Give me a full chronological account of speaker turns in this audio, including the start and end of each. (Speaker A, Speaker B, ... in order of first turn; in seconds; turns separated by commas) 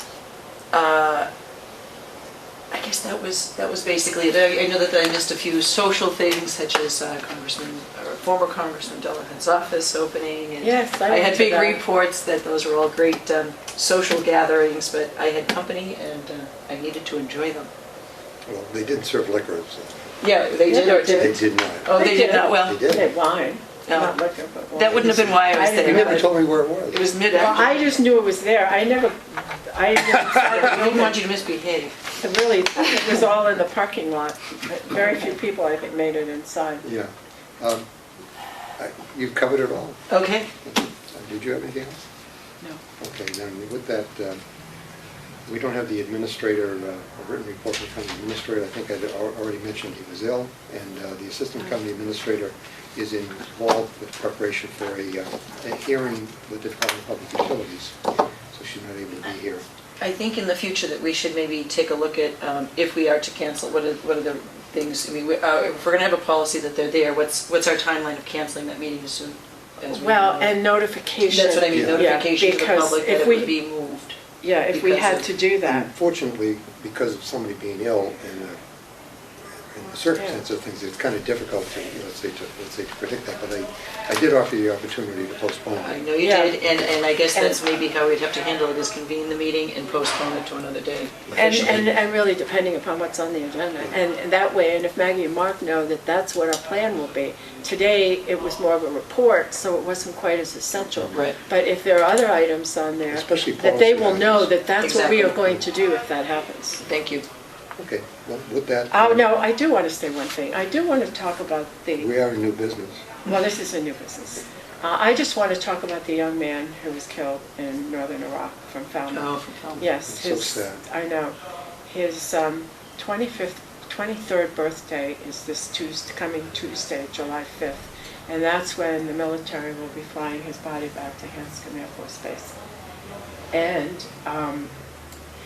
Speaker A: 0.7-1.3, Speaker A: 2.7-17.7, Speaker B: 10.6-11.8, Speaker C: 18.4-20.2, Speaker A: 20.2-22.9, Speaker B: 20.6-21.4, Speaker C: 21.2-23.1, Speaker B: 21.9-26.2, Speaker A: 23.9-24.1, Speaker A: 24.7-26.3, Speaker C: 24.9-27.0, Speaker A: 26.9-27.9, Speaker B: 27.3-31.2, Speaker A: 30.3-32.0, Speaker B: 32.2-36.8, Speaker C: 36.8-37.8, Speaker C: 38.8-40.0, Speaker A: 40.1-40.5, Speaker C: 40.6-42.0, Speaker C: 43.0-44.4, Speaker C: 45.5-58.0, Speaker C: 58.5-59.6, Speaker A: 60.0-70.6, Speaker B: 69.9-73.5, Speaker A: 71.3-74.2, Speaker C: 71.7-72.1, Speaker B: 74.4-75.9, Speaker A: 74.7-75.3, Speaker C: 75.6-78.6, Speaker C: 79.7-86.0, Speaker A: 85.8-91.8, Speaker B: 86.2-86.5, Speaker B: 87.3-87.6, Speaker C: 91.3-91.9, Speaker B: 91.3-106.8, Speaker C: 100.9-101.2, Speaker C: 103.1-104.5, Speaker A: 104.8-105.4, Speaker A: 106.8-107.2, Speaker C: 107.8-109.2, Speaker B: 108.9-112.1, Speaker C: 112.0-113.0, Speaker B: 113.2-121.3, Speaker A: 119.1-119.8, Speaker C: 119.8-120.8, Speaker B: 121.9-132.5, Speaker B: 133.5-134.7